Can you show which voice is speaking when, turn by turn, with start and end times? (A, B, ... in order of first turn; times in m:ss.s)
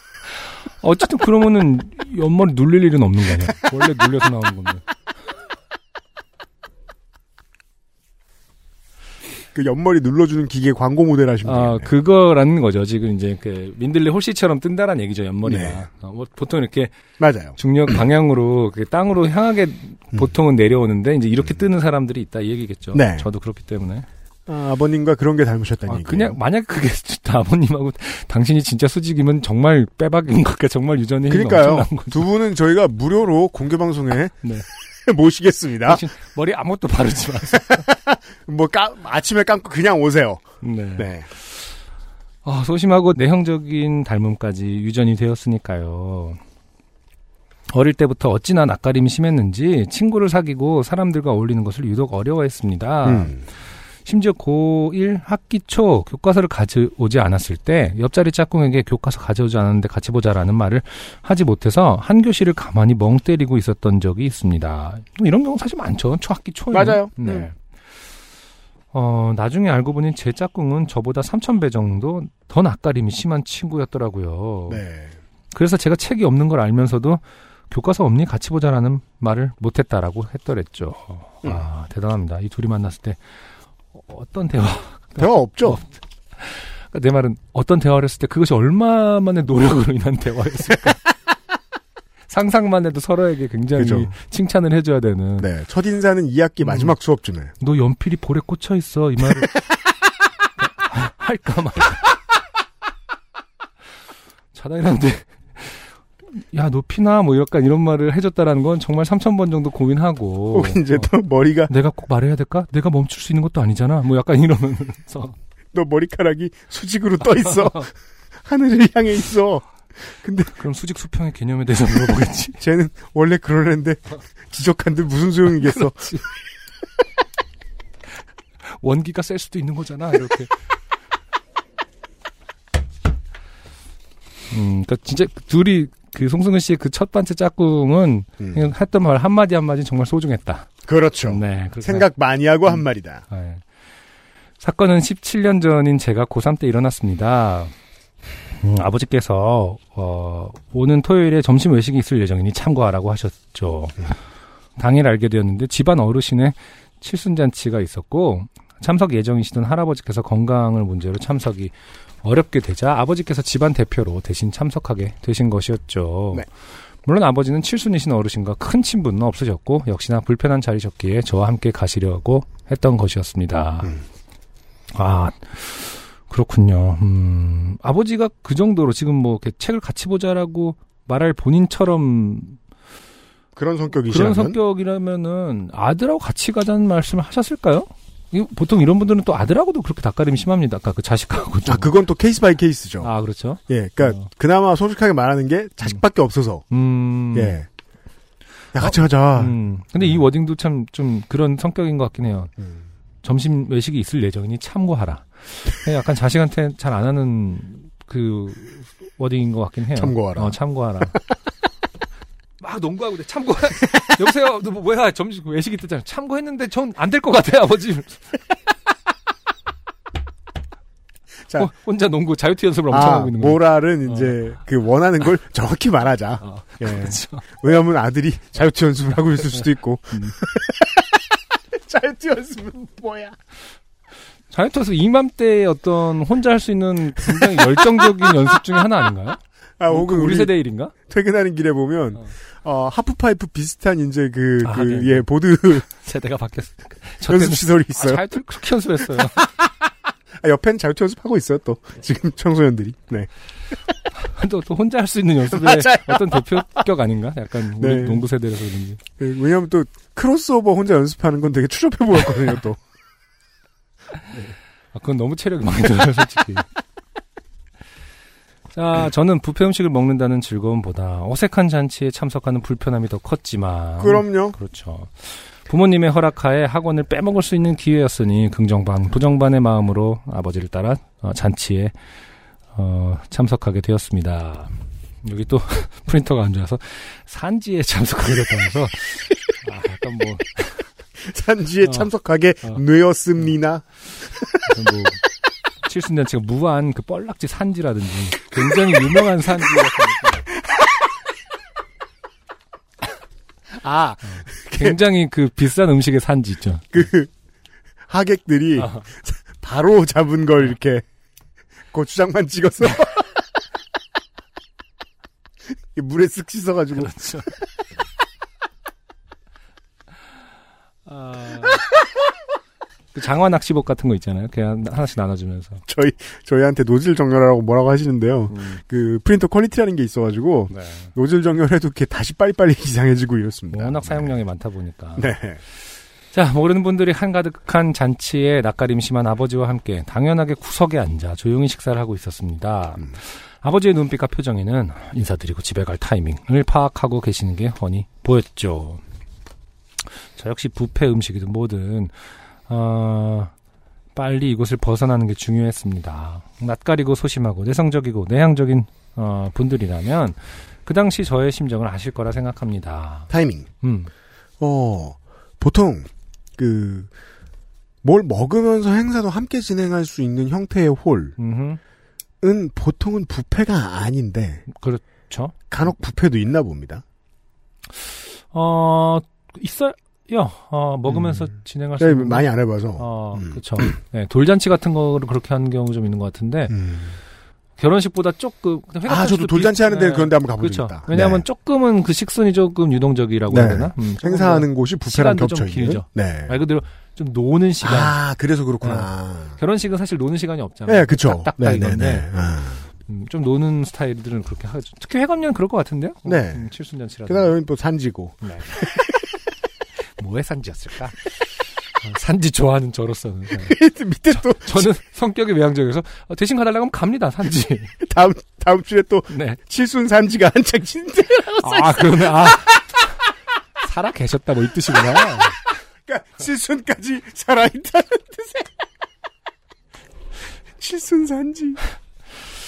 0:00.8-0:04.8 A
0:09.5-0:11.9 B
0:11.4-0:16.9 A
0:15.4-0:15.8 B
0:17.2-0:17.6 B
0:17.6-0:24.1 A
0:22.9-0:23.3 B
0:24.5-0:26.4 B
0:25.8-0:32.3 A
0:31.3-0:34.4 B
0:35.0-0:36.0 B
0:35.8-0:37.8 A
0:37.6-0:41.3 B
0:40.6-0:41.1 A
0:42.4-0:46.4 A
0:47.7-0:53.4 A
0:53.0-0:53.4 B
0:54.0-1:07.6 A
1:06.7-1:07.5 B
1:08.9-1:14.8 A
1:14.7-1:15.1 B
1:15.5-1:23.2 A
1:23.9-1:31.0 A
1:25.2-1:25.8 B
1:32.3-1:35.5 A
1:33.8-1:34.1 B
1:35.4-1:37.5 B
1:36.6-1:36.9 A
1:37.6-1:39.5 A
1:40.6-1:42.1 A
1:44.5-1:51.1 A
1:50.5-1:51.7 B
1:51.7-1:55.4 A
1:55.7-1:57.9 B
1:57.5-1:57.9 A
1:58.4-2:00.5 B
2:00.5-2:02.6 A
2:02.6-2:06.1 B
2:05.6-2:06.2 A
2:08.6-2:10.5 A
2:14.5-2:20.7 A
2:18.4-2:18.6 B
2:20.8-2:23.2 B
2:21.3-2:22.1 A
2:22.7-2:23.6 A
2:24.6-2:27.7 A
2:28.6-2:34.1 A
2:34.8-2:46.4 A
2:47.0-2:54.0 A
2:54.9-3:02.6 A
3:03.6-3:04.6 B
3:04.0-3:11.9 A
3:11.6-3:13.1 B
3:13.0-3:14.3 A
3:13.7-3:16.6 B
3:16.7-3:17.6 A
3:17.3-3:17.7 B
3:18.7-3:19.5 B
3:18.8-3:22.5 A
3:23.2-3:31.2 A
3:30.0-3:30.6 B
3:32.6-3:38.2 A
3:41.6-3:44.3 A
3:42.9-3:53.4 B
3:46.4-3:47.4 A
3:50.1-3:50.4 A
3:54.5-4:00.9 A
3:59.8-4:05.9 B
4:04.6-4:05.2 A
4:05.9-4:09.5 A
4:07.2-4:08.2 B
4:10.4-4:13.3 B
4:14.2-4:19.0 A
4:15.5-4:16.8 B
4:17.8-4:18.2 B
4:19.2-4:22.8 B
4:24.9-4:26.7 A
4:28.7-4:41.9 A
4:34.0-4:34.6 B
4:42.7-4:50.8 A
4:51.2-4:53.8 B
4:54.6-4:55.2 A
4:55.8-5:00.4 A
5:03.8-5:05.0 B
5:04.2-5:07.0 A
5:06.9-5:07.3 B
5:08.1-5:11.0 B
5:08.8-5:09.1 A
5:11.9-5:13.3 B
5:15.9-5:17.2 B
5:17.0-5:17.5 A
5:21.1-5:21.8 A
5:23.1-5:25.8 A
5:25.9-5:34.3 B
5:28.5-5:28.8 A
5:30.7-5:31.1 A
5:33.7-5:35.3 A
5:35.2-5:35.6 B
5:36.3-5:49.0 A
5:50.4-5:52.1 A
5:52.7-5:53.5 A
5:54.1-6:03.3 A
6:03.3-6:03.7 B
6:03.8-6:04.1 A
6:04.6-6:07.1 B
6:08.0-6:11.4 B
6:11.4-6:11.8 A
6:12.4-6:14.6 B
6:14.7-6:15.5 A
6:15.7-6:17.0 B
6:18.0-6:22.5 A
6:21.1-6:23.9 B
6:23.0-6:26.8 A
6:26.7-6:27.2 B
6:27.8-6:38.2 A
6:29.0-6:31.4 B
6:33.5-6:36.6 B
6:37.8-6:39.6 B
6:38.8-6:42.3 A
6:40.9-6:42.8 B
6:43.1-6:47.5 A
6:46.2-6:46.7 B
6:47.3-6:49.1 B
6:48.4-6:48.9 A
6:50.2-6:51.3 A
6:52.0-6:53.8 A
6:53.5-6:54.9 B
6:54.3-6:58.0 A
6:58.0-7:02.8 B
6:59.3-6:59.6 A
7:01.5-7:02.9 A
7:03.8-7:05.6 A
7:06.0-7:08.7 B
7:10.8-7:11.8 B